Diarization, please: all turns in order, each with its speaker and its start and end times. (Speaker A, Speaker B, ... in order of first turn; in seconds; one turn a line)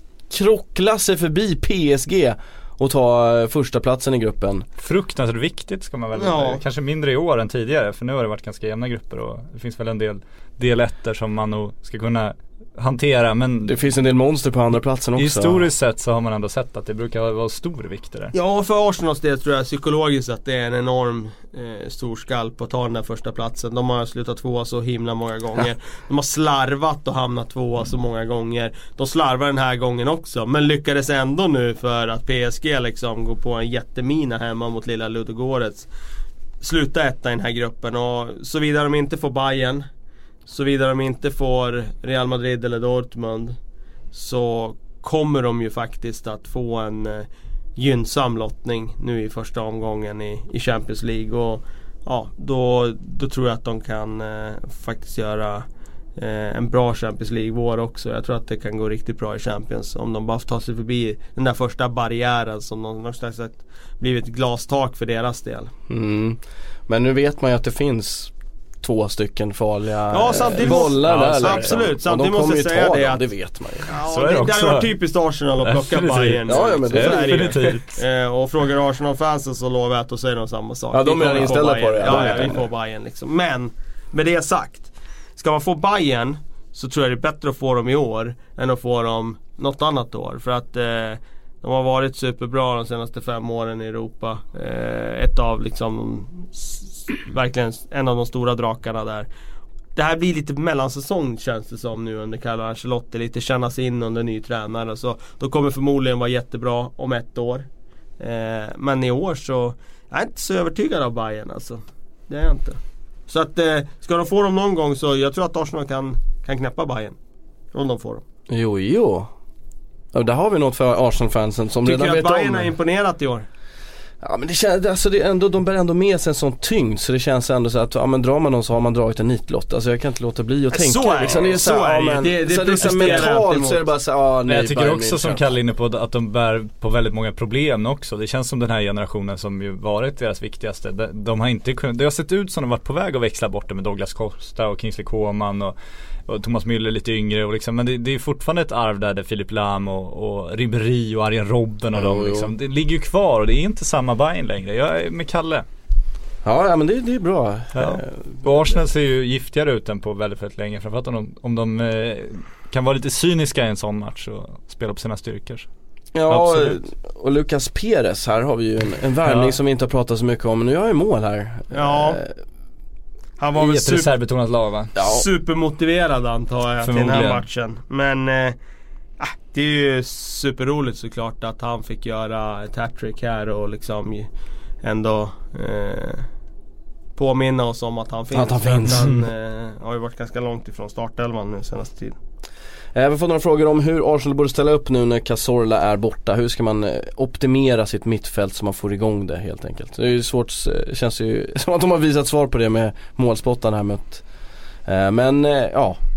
Speaker A: 0.3-4.7
Speaker B: 4.8-13.8
Speaker C: 6.2-6.6
Speaker A: 13.7-15.6
Speaker B: 15.2-18.3
Speaker C: 18.3-35.9
Speaker C: 36.6-39.9
Speaker C: 40.5-43.5
Speaker C: 44.1-55.6
Speaker C: 56.2-65.7
Speaker A: 65.9-73.9
Speaker C: 70.1-73.2
Speaker B: 70.6-71.8
Speaker C: 73.8-99.3
Speaker B: 74.0-74.9
Speaker B: 75.6-78.0
Speaker A: 76.5-77.7
Speaker A: 80.9-82.6
Speaker C: 100.0-107.7
Speaker C: 108.2-117.2
Speaker C: 117.7-118.2
Speaker A: 118.5-119.3
Speaker A: 120.1-122.7
Speaker C: 121.8-123.5
Speaker A: 124.2-135.4
Speaker C: 130.7-133.8
Speaker B: 134.5-145.8
Speaker B: 146.3-155.6
Speaker A: 151.9-152.5
Speaker A: 156.4-158.8
Speaker B: 157.7-165.7
Speaker A: 166.1-172.4
Speaker B: 166.3-166.8
Speaker B: 169.2-169.6
Speaker C: 171.7-172.2
Speaker C: 173.4-174.1
Speaker B: 173.6-174.9
Speaker A: 174.9-175.3
Speaker C: 175.0-178.6
Speaker B: 176.8-177.4
Speaker C: 179.2-184.3
Speaker C: 184.8-186.3
Speaker C: 187.2-192.2
Speaker A: 188.3-189.1
Speaker A: 192.9-204.2
Speaker A: 204.8-206.0